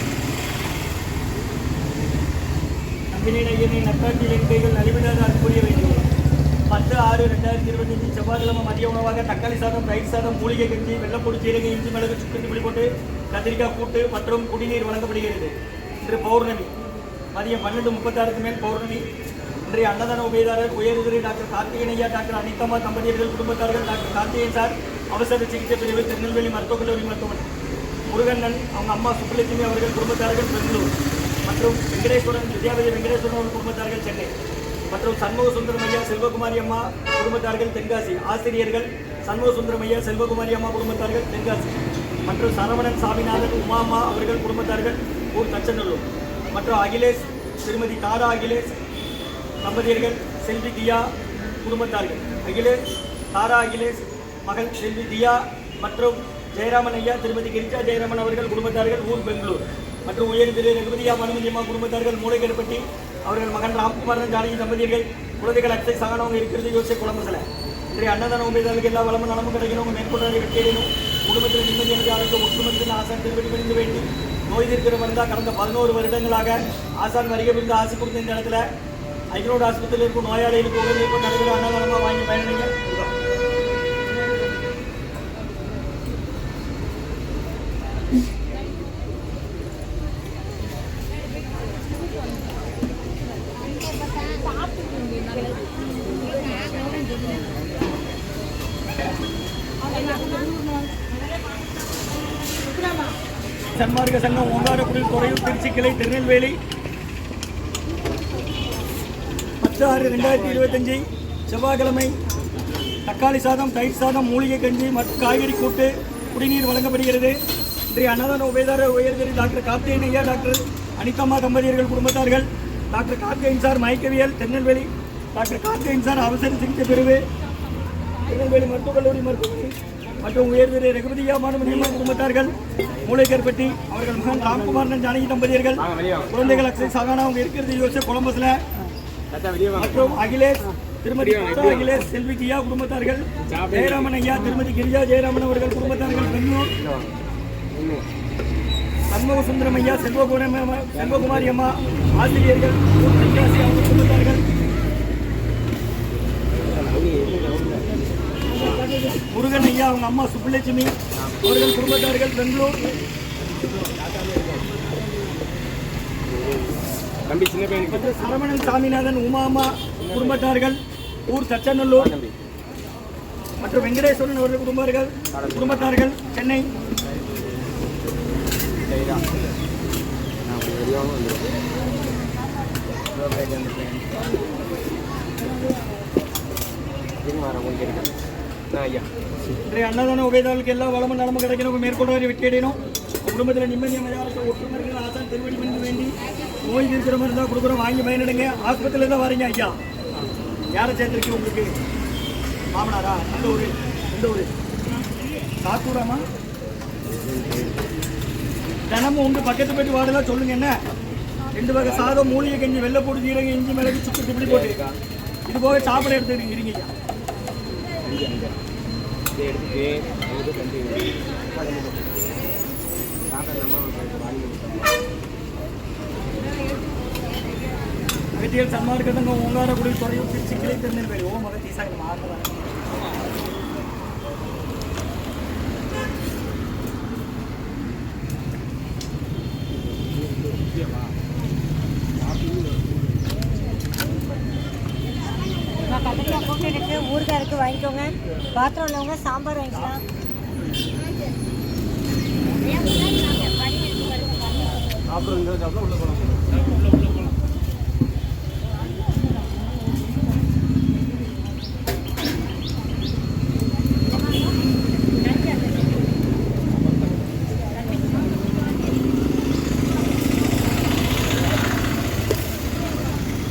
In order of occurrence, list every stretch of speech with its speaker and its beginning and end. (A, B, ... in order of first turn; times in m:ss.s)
0:03.1-0:06.1 A
0:06.7-0:16.7 A
0:17.3-0:19.0 A
0:19.7-0:27.5 A
0:28.1-0:30.9 A
0:31.4-0:34.3 A
0:34.9-0:41.7 A
0:42.2-0:48.7 A
0:49.6-0:52.8 A
0:53.3-1:18.7 A
1:19.3-1:23.1 A
1:40.2-1:40.5 B
1:43.7-1:46.6 A
1:49.6-1:52.1 A
1:53.0-1:57.4 A
1:57.9-2:07.2 A
2:08.3-2:18.6 A
2:15.8-2:16.4 C
2:19.3-2:20.1 C
2:19.8-2:26.7 A
2:21.2-2:22.1 C
2:23.5-2:24.2 C
2:25.9-2:28.0 C
2:29.1-2:34.4 A
2:30.9-2:31.6 C
2:36.5-2:37.9 C
2:38.5-2:40.9 A
2:41.2-2:41.4 C
2:41.4-2:42.8 A
2:43.7-2:44.6 C
2:46.3-2:48.5 C
2:47.9-2:52.1 A
2:50.0-2:50.4 C
2:52.0-2:52.3 C
2:53.6-2:56.7 A
2:55.3-2:56.0 C
2:58.8-2:59.3 C
3:00.4-3:01.5 C
3:03.1-3:04.2 C
3:07.2-3:08.1 C
3:08.7-3:09.1 C
3:09.7-3:19.8 A
3:20.7-3:21.8 A
3:22.7-3:24.5 A
3:25.6-3:26.2 A
3:27.1-3:27.8 C
3:28.9-3:30.8 A
3:31.5-3:34.8 A
3:31.8-3:32.4 C
3:34.4-3:35.0 C
3:35.5-3:36.9 A
3:38.0-3:38.6 C
3:39.3-3:42.1 C
3:43.3-3:45.0 C
3:48.4-3:52.8 A
4:05.8-4:10.0 B
4:13.2-4:14.3 B